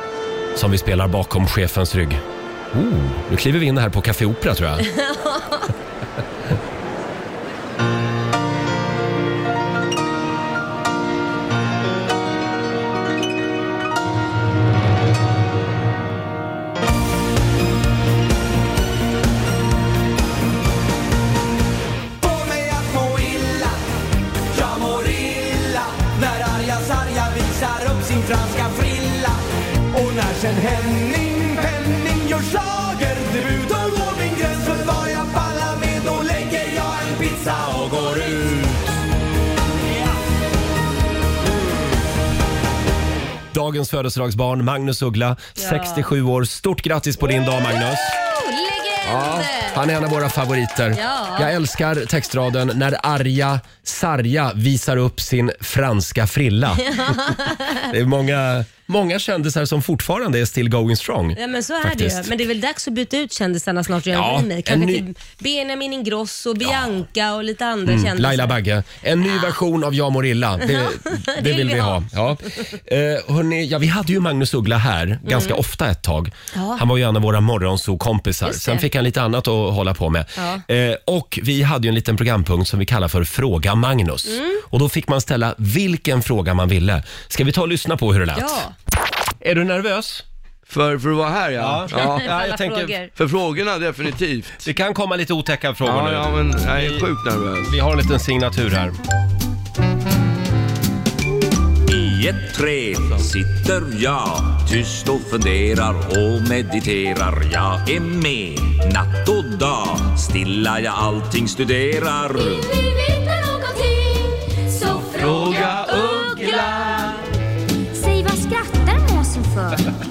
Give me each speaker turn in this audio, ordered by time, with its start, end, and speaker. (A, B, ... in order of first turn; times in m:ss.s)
0:00.6-0:04.9 A
0:04.9-0:05.7 B
0:22.2-0:23.8 C
0:24.5-0:38.8 C
0:43.5-0:48.2 A
0:45.6-0:46.1 B
0:48.1-0:49.8 B
0:49.0-1:02.3 A
0:50.9-0:51.5 B
0:56.8-0:57.9 B
1:01.4-1:08.6 B
1:04.1-1:05.1 A
1:06.6-1:07.0 A
1:07.9-1:28.7 A
1:09.2-1:09.6 B
1:10.6-1:12.0 B
1:15.3-1:15.6 B
1:16.5-1:16.8 B
1:18.4-1:18.8 B
1:20.4-1:20.6 B
1:24.3-1:24.6 B
1:28.4-1:28.7 B
1:29.4-1:30.2 A
1:30.7-1:32.4 D
1:31.6-1:33.0 A
1:32.0-1:33.1 B
1:33.2-1:34.6 D
1:34.6-1:37.1 A
1:35.8-1:37.7 D
1:37.6-1:39.0 A
1:41.9-1:52.8 E
1:52.3-1:57.2 F
1:57.9-1:59.8 F